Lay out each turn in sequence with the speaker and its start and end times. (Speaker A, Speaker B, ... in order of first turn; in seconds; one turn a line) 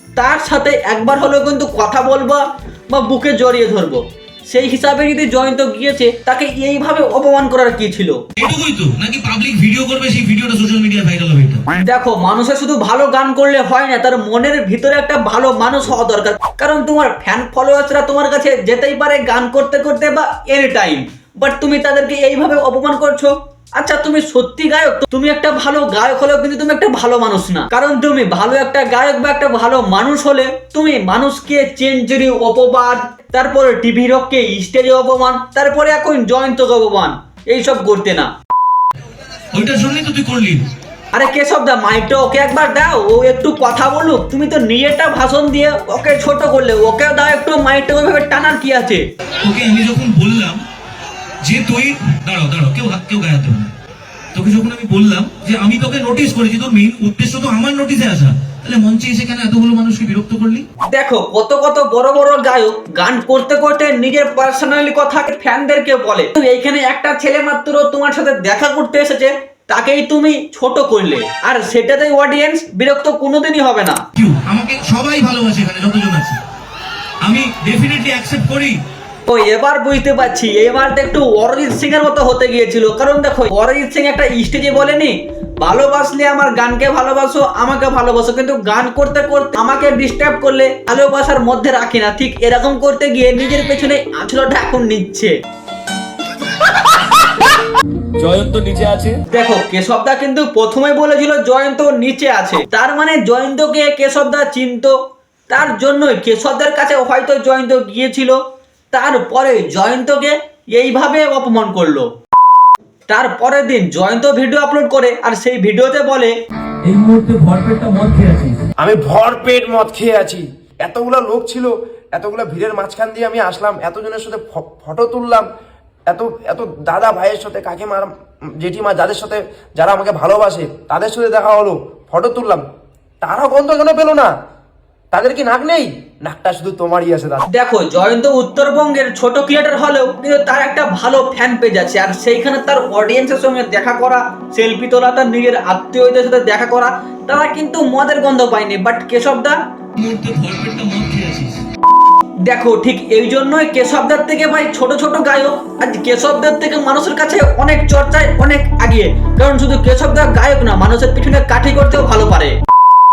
Speaker A: 0.1-8.2
Speaker B: 8.4-11.7
Speaker A: 11.8-38.3
Speaker B: 39.5-40.6
Speaker A: 41.1-49.0
Speaker B: 49.4-50.6
Speaker B: 51.4-53.7
Speaker B: 54.3-60.6
Speaker A: 60.9-74.0
Speaker B: 74.2-76.4
Speaker B: 77.2-78.8
Speaker A: 79.3-95.3
Speaker C: 98.2-99.1
Speaker B: 98.4-99.1
Speaker A: 99.3-104.9
Speaker A: 105.5-108.4
Speaker A: 108.9-112.1
Speaker A: 113.1-116.3
Speaker B: 116.9-118.6
Speaker C: 117.0-118.4
Speaker D: 118.8-125.5
Speaker D: 126.1-128.1
Speaker D: 128.6-132.6
Speaker D: 133.2-134.3
Speaker D: 135.1-137.4
Speaker A: 137.5-149.6
Speaker B: 149.9-151.6
Speaker A: 152.4-162.5